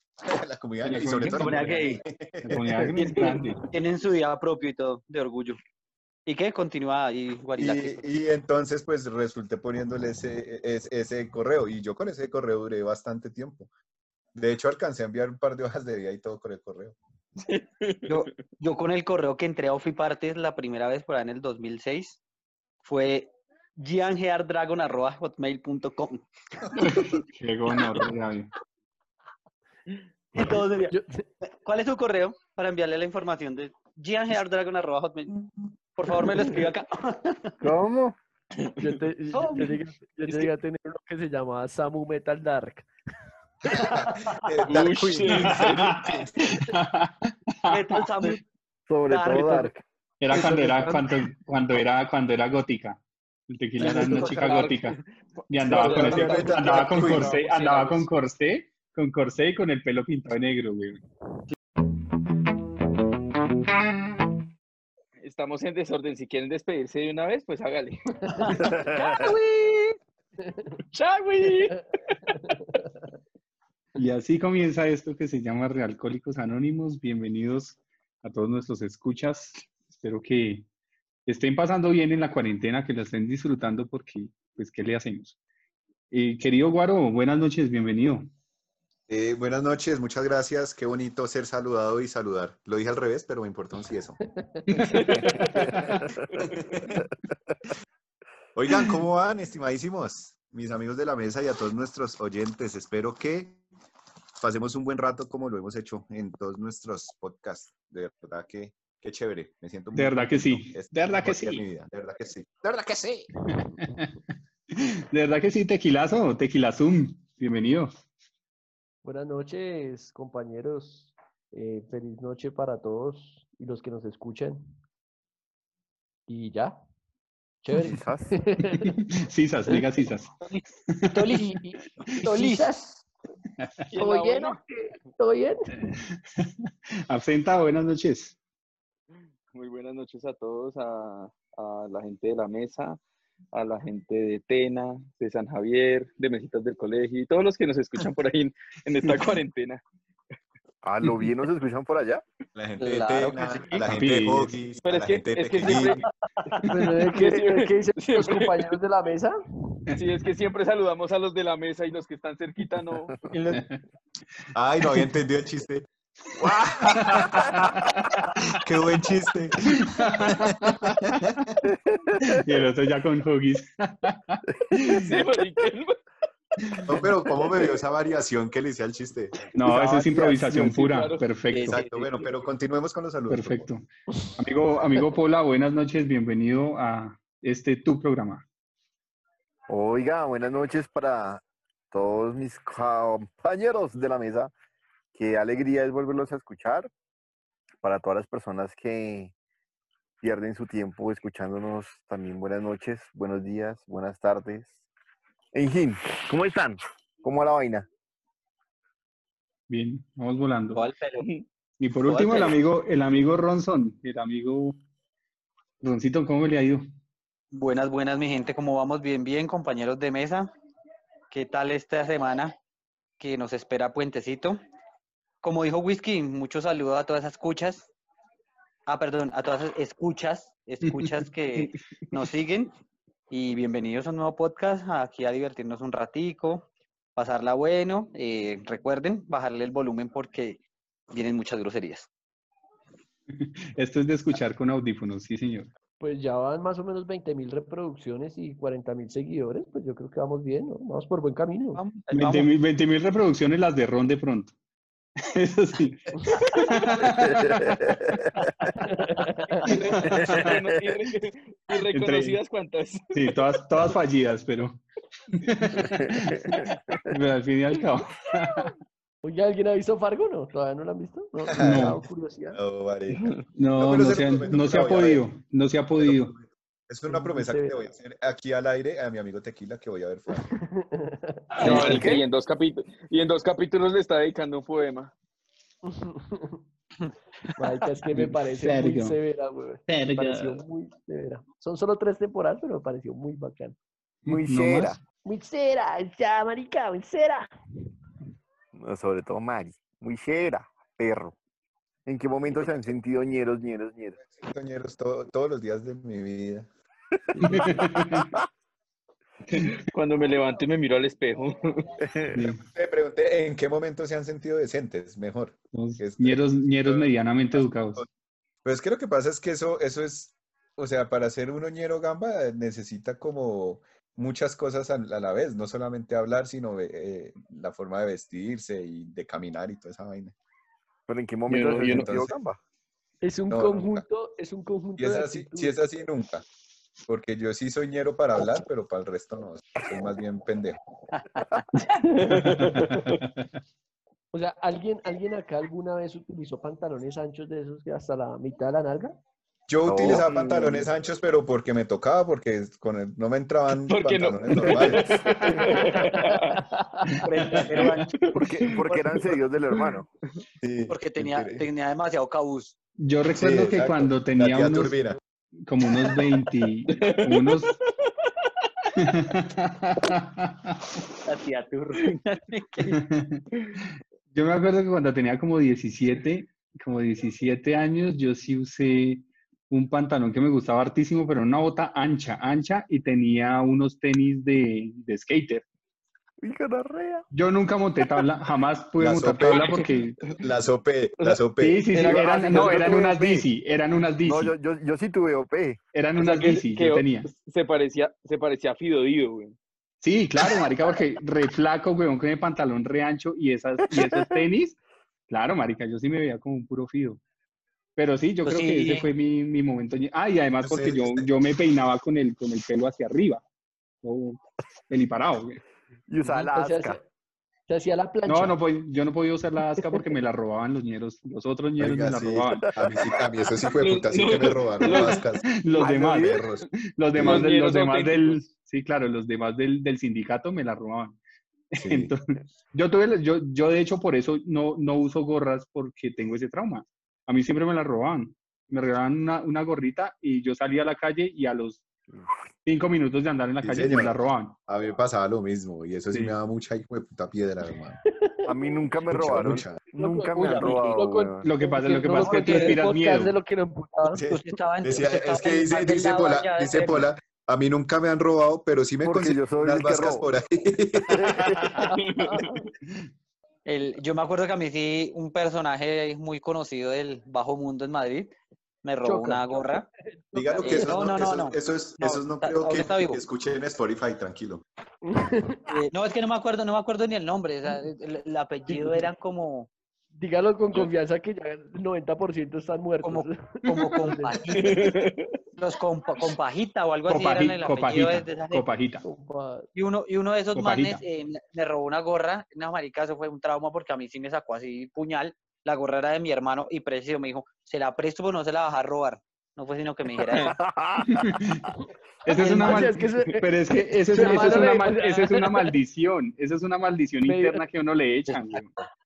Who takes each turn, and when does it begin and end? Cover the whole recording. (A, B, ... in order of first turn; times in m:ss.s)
0:00.2-0:02.6 A
0:00.8-0:01.8 B
0:01.3-0:02.0 C
0:02.4-0:03.6 B
0:03.0-0:05.6 C
0:06.2-0:08.1 C
0:07.6-0:13.7 A
0:14.3-0:17.0 A
0:17.4-0:18.3 D
0:18.1-0:22.2 C
0:22.8-0:26.2 C
0:26.8-0:28.5 B
0:26.8-0:27.2 C
0:30.3-0:37.6 C
0:30.9-0:31.2 E
0:37.6-0:38.2 F
0:38.8-0:42.9 E
0:39.3-0:40.5 C
0:43.7-0:44.7 C
0:43.8-0:46.3 A
0:44.7-0:46.2 D
0:45.2-0:48.4 B
0:47.7-0:48.4 C
0:48.9-0:49.8 F
0:49.1-0:49.7 C
0:50.2-0:55.0 B
0:50.3-0:51.1 E
0:53.8-0:58.1 D
0:53.8-0:54.5 C
0:55.5-1:01.0 B
0:55.8-0:57.4 A
1:05.2-1:08.0 D
1:08.3-1:09.9 C
1:08.5-1:09.2 D
1:08.6-1:09.0 F
1:10.9-1:11.8 D
1:12.3-1:12.8 E
1:14.0-1:20.6 B
1:21.2-1:25.4 B
1:26.1-1:28.3 B
1:29.1-1:34.2 A
1:34.7-1:36.0 B
1:34.8-1:35.6 D
1:35.3-1:37.0 A
1:36.3-1:36.8 D
1:38.6-1:43.6 A
1:44.4-1:53.3 A
1:49.9-1:51.6 B
1:53.5-1:54.1 B
1:54.7-1:58.0 B
1:59.0-2:04.6 E
2:06.3-2:06.8 E
2:07.6-2:08.9 E
2:07.7-2:08.4 F
2:08.8-2:10.3 B
2:10.4-2:11.6 C
2:10.9-2:11.4 B
2:11.3-2:13.0 E
2:12.1-2:12.7 C
2:13.6-2:13.9 B
2:13.9-2:14.6 D
2:14.0-2:15.7 E
2:15.8-2:16.5 B
2:17.1-2:18.4 B
2:19.5-2:23.0 D
2:23.5-2:29.8 D
2:30.8-2:32.2 F
2:32.5-2:36.0 A
2:32.8-2:33.9 C
2:33.9-2:34.5 B
2:34.8-2:36.1 D
2:36.6-2:39.3 E
2:37.2-2:38.7 D
2:39.9-2:43.1 D
2:43.3-2:43.6 C
2:43.5-2:43.8 B
2:44.5-2:45.8 A
2:46.4-2:47.9 F
2:46.4-2:48.6 B
2:48.6-2:51.4 A
2:49.6-2:51.5 B
2:51.6-2:52.4 F
2:52.2-2:55.1 B
2:54.9-2:56.0 D
2:56.7-2:57.0 B
2:56.8-2:59.5 A
2:59.5-3:01.8 B
2:59.6-3:00.8 F
3:00.6-3:01.3 D
3:01.5-3:02.0 C
3:01.6-3:03.7 A
3:03.3-3:03.8 B
3:04.4-3:08.4 B
3:09.7-3:14.5 F
3:15.1-3:16.9 F
3:17.8-3:19.3 F
3:20.2-3:24.8 F
3:25.5-3:27.9 F
3:29.7-3:30.8 B
3:30.7-3:31.3 C
3:31.2-3:31.4 D
3:31.8-3:34.8 B
3:32.0-3:32.6 C
3:35.8-3:36.8 B
3:37.5-3:40.5 C
3:41.3-3:42.5 C
3:43.2-3:44.6 C
3:45.4-3:47.9 C
3:48.9-3:52.7 C
3:50.8-3:51.1 B
3:53.3-4:00.6 C
4:01.1-4:02.1 C
4:03.3-4:05.7 B
4:06.0-4:11.8 E
4:11.7-4:12.5 C
4:12.1-4:14.5 B
4:15.2-4:17.9 B
4:17.1-4:18.3 F
4:18.7-4:19.6 E
4:19.7-4:20.5 B
4:19.7-4:23.4 D
4:20.2-4:20.9 F
4:21.9-4:22.4 B
4:23.1-4:28.7 B
4:26.0-4:26.4 F
4:29.2-4:32.6 E
4:31.5-4:32.0 A
4:31.6-4:32.0 B
4:32.5-4:33.2 A
4:33.6-4:36.3 B
4:33.7-4:35.2 A
4:36.0-4:40.4 A
4:37.1-4:37.7 E
4:40.6-4:41.6 E
4:41.5-4:42.0 B
4:41.6-4:42.2 C
4:41.6-4:45.1 D
4:41.6-4:42.2 F
4:45.8-4:46.6 E
4:47.6-4:53.8 E
4:48.1-4:49.2 B
4:49.9-4:50.6 B
4:54.2-4:55.0 B
4:54.3-4:55.0 F
4:55.2-4:57.5 E
4:58.7-5:01.4 F
5:02.0-5:04.2 F
5:04.2-5:06.7 A
5:07.3-5:08.4 F
5:07.4-5:08.3 B
5:09.5-5:11.9 D
5:09.5-5:09.8 B
5:12.0-5:12.4 F
5:12.3-5:12.6 B
5:12.5-5:18.1 A
5:15.7-5:18.0 B
5:18.6-5:30.3 A
5:31.1-5:32.6 F
5:31.5-5:32.2 D
5:31.8-5:32.3 A
5:33.2-5:35.7 E
5:33.5-5:34.0 A
5:35.0-5:36.4 A
5:37.1-5:40.8 A
5:41.1-5:41.6 C
5:41.8-5:43.2 D
5:42.4-5:43.4 B
5:44.3-5:49.2 E
5:49.7-5:55.2 A
5:49.9-5:50.2 F
5:50.1-5:50.9 D
5:53.7-5:56.6 D
5:55.1-5:55.8 B
5:55.5-5:57.2 E
5:57.1-5:58.0 B
5:57.2-5:58.2 C
5:58.2-5:58.8 D
5:58.3-6:00.0 F
5:58.8-5:59.2 C
5:59.7-6:00.0 D
6:00.6-6:01.6 A
6:00.9-6:02.8 C
6:03.0-6:05.0 B
6:03.3-6:05.2 A
6:05.6-6:07.7 B
6:06.9-6:08.2 D
6:09.0-6:10.8 B
6:11.2-6:13.0 C
6:12.8-6:25.6 B
6:26.4-6:27.2 F
6:27.3-6:30.2 B
6:29.0-6:29.8 A
6:29.4-6:30.3 D
6:30.4-6:32.0 A
6:31.2-6:33.0 D
6:31.6-6:34.5 B
6:32.0-6:33.5 F
6:34.2-6:35.8 F
6:35.9-6:37.3 B
6:36.2-6:39.6 D
6:40.0-6:44.8 B
6:45.3-6:47.2 B
6:48.0-6:53.4 B
6:48.4-6:49.1 C
6:50.6-6:51.3 A
6:54.0-6:55.6 B
6:56.1-6:57.0 F
6:56.4-6:57.0 E
6:57.7-6:58.6 E
6:58.2-7:02.7 B
7:01.8-7:07.5 A
7:02.5-7:03.1 F
7:03.7-7:05.2 D
7:05.4-7:11.2 B
7:05.7-7:06.4 F
7:07.2-7:08.5 D
7:11.7-7:21.8 B
7:11.8-7:12.1 A
7:22.6-7:24.6 B
7:23.6-7:28.0 A
7:28.2-7:28.7 E
7:28.4-7:31.5 F
7:29.1-7:29.8 A
7:29.9-7:34.2 E
7:31.4-7:33.4 B
7:32.2-7:32.8 C
7:34.1-7:41.4 A
7:34.3-7:37.1 C
7:39.0-7:40.3 F
7:41.1-7:41.8 F
7:41.8-7:42.6 E
7:42.0-7:42.6 D
7:43.6-7:49.9 C
7:49.0-7:49.6 E
7:50.3-7:54.6 A
7:50.4-7:53.2 C
7:55.0-7:55.8 E
7:55.7-7:59.7 C
7:58.7-7:59.0 E
8:00.1-8:04.4 E
8:03.0-8:04.9 C
8:04.5-8:05.3 D
8:05.6-8:08.6 C
8:07.1-8:09.0 B
8:09.0-8:09.6 E
8:09.7-8:20.5 C
8:10.5-8:11.0 B
8:20.5-8:21.2 F
8:21.1-8:21.7 B
8:22.2-8:28.7 B
8:22.3-8:25.7 E
8:24.1-8:24.7 D
8:27.2-8:27.6 E
8:28.3-8:28.9 C